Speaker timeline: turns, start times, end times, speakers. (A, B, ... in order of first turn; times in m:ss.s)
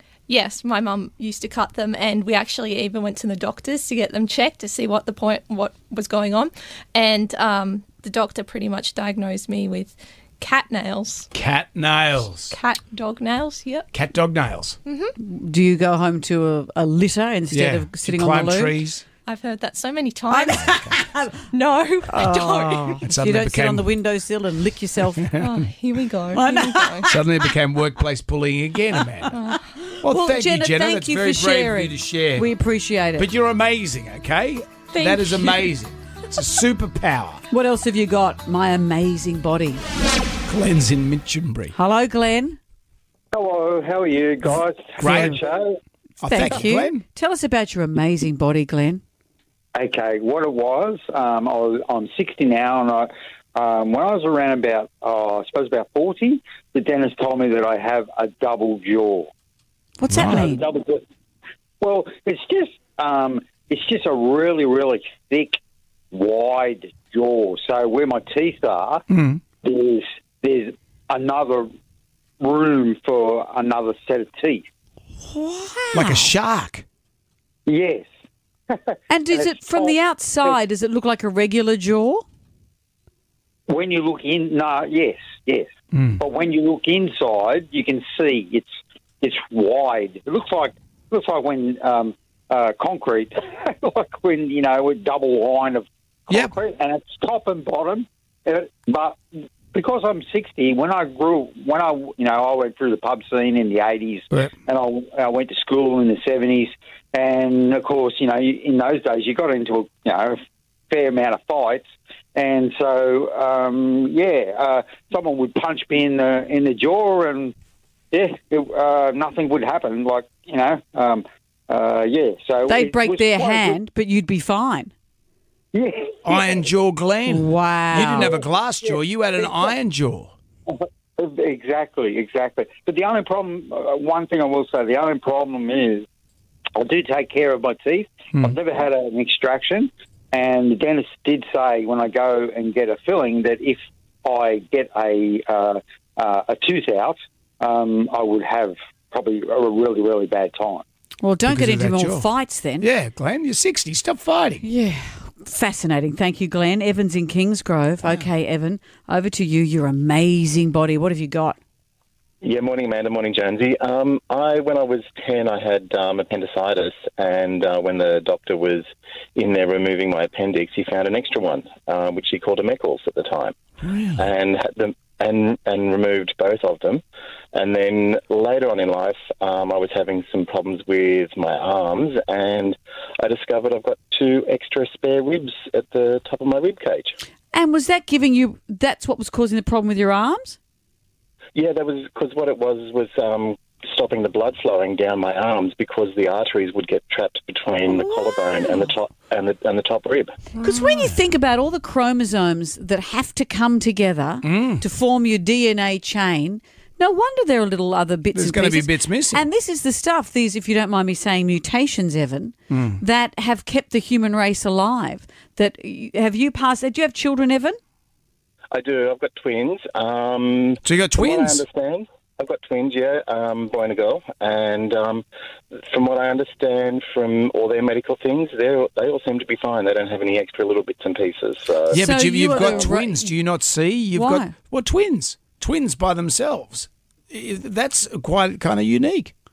0:00.3-0:11.3 A
0:11.3-0:12.5 B
0:12.5-0:13.9 A
0:13.9-0:14.8 B
0:14.9-0:15.1 A
0:15.2-0:18.8 C
0:17.5-0:19.0 B
0:19.3-0:23.0 A
0:20.3-0:21.4 C
0:20.7-0:20.9 B
0:22.1-0:25.3 C
0:23.0-0:23.9 B
0:25.2-0:25.6 B
0:25.4-0:27.1 A
0:26.3-0:27.2 C
0:27.1-0:29.4 B
0:29.3-0:29.6 A
0:29.9-0:33.3 C
0:30.0-0:32.5 B
0:33.2-0:37.4 B
0:34.9-0:35.7 A
0:37.5-0:39.8 C
0:40.5-0:41.7 B
0:41.7-0:42.6 C
0:43.3-0:45.8 D
0:45.0-0:45.4 B
0:45.0-0:45.4 C
0:46.2-0:47.0 B
0:46.2-0:49.0 C
0:49.8-0:59.3 D
1:00.0-1:00.6 C
1:00.1-1:00.5 B
1:00.2-1:01.0 D
1:01.8-1:05.6 D
1:06.1-1:09.0 D
1:09.1-1:09.4 B
1:09.6-1:11.7 D
1:12.4-1:14.7 D
1:15.2-1:16.3 C
1:15.9-1:16.8 B
1:17.7-1:18.1 D
1:18.7-1:20.6 D
1:19.1-1:22.2 C
1:23.7-1:25.7 D
1:25.9-1:26.2 B
1:26.2-1:28.7 D
1:29.2-1:39.2 D
1:39.7-1:50.4 D
1:50.9-1:51.8 D
1:52.4-1:57.5 D
1:58.1-2:03.8 D
2:02.7-2:04.9 C
2:05.7-2:06.6 D
2:06.2-2:10.3 B
2:07.3-2:08.4 C
2:08.0-2:09.7 D
2:10.7-2:16.0 D
2:16.8-2:30.8 D
2:31.2-2:32.9 C
2:31.5-2:32.3 B
2:32.8-2:34.6 B
2:34.6-2:41.6 C
2:42.4-2:53.6 E
2:53.8-2:54.3 B
2:54.2-2:57.0 E
2:57.5-3:07.1 E
3:07.5-3:10.6 C
3:11.6-3:20.4 E
3:17.9-3:18.9 C
3:20.6-3:37.8 C
3:20.6-3:21.1 B
3:24.4-3:24.8 B
3:28.3-3:29.5 B
3:32.7-3:33.0 B
3:38.7-3:45.2 E
3:40.8-3:41.6 B
3:45.8-3:52.0 E
3:51.9-3:59.3 B
3:51.9-3:53.3 C
3:52.6-3:52.8 E
3:54.1-3:54.5 C